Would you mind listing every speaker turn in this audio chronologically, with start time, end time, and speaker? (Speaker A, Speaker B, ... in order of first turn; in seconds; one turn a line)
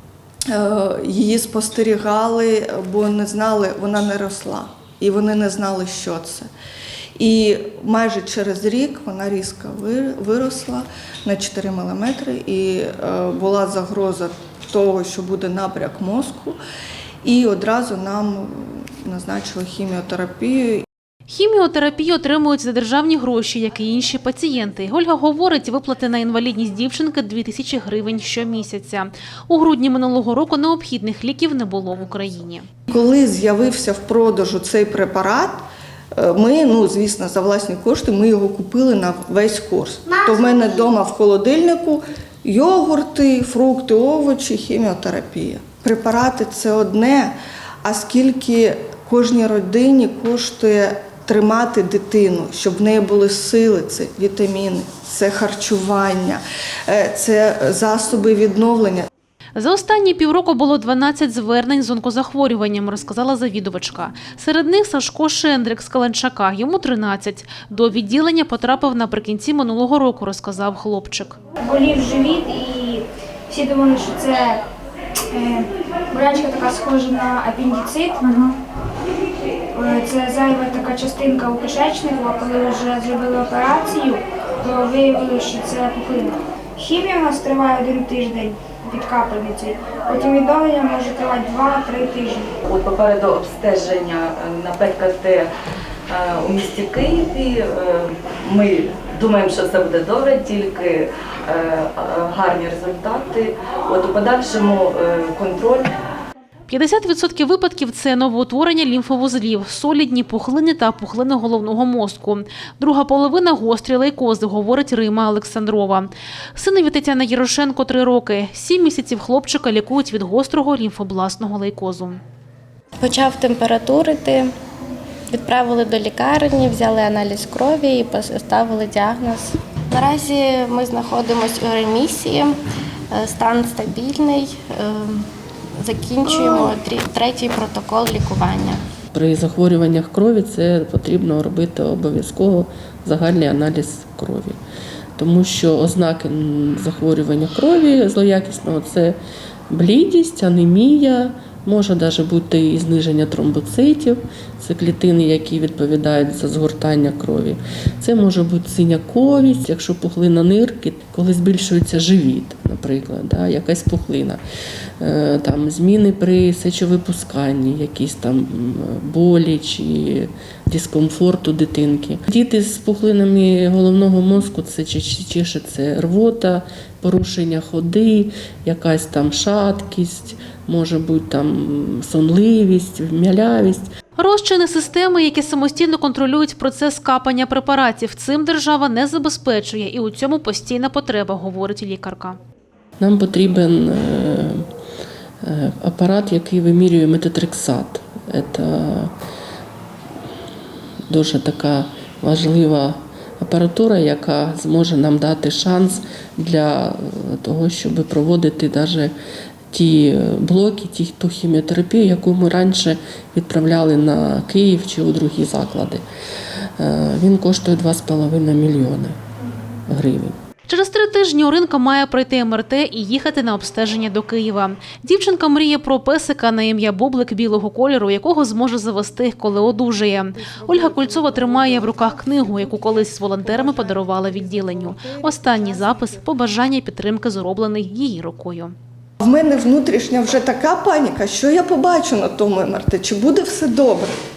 Speaker A: 0.5-6.5
Speaker A: 7.2-16.6
Speaker A: 17.2-20.9
Speaker B: 21.3-32.6
Speaker A: 32.9-35.6
Speaker A: 36.1-59.1
Speaker B: 59.6-71.4
Speaker C: 71.6-74.6
Speaker C: 75.3-78.3
Speaker C: 79.7-92.5
Speaker D: 92.7-95.5
Speaker D: 96.1-105.9
Speaker B: 106.7-122.2
Speaker E: 123.0-124.5
Speaker E: 125.3-132.5
Speaker E: 133.1-135.3
Speaker E: 135.8-138.8
Speaker F: 139.1-144.6
Speaker F: 145.2-149.2
Speaker F: 149.7-164.4
Speaker F: 165.0-183.9
Speaker B: 184.2-192.4
Speaker F: 193.0-194.6
Speaker F: 195.4-199.1
Speaker F: 201.1-209.1
Speaker F: 209.7-216.0
Speaker F: 216.8-219.2
Speaker F: 219.9-220.4
Speaker B: 220.7-238.7
Speaker A: 230.3-236.3
Speaker A: 239.2-244.1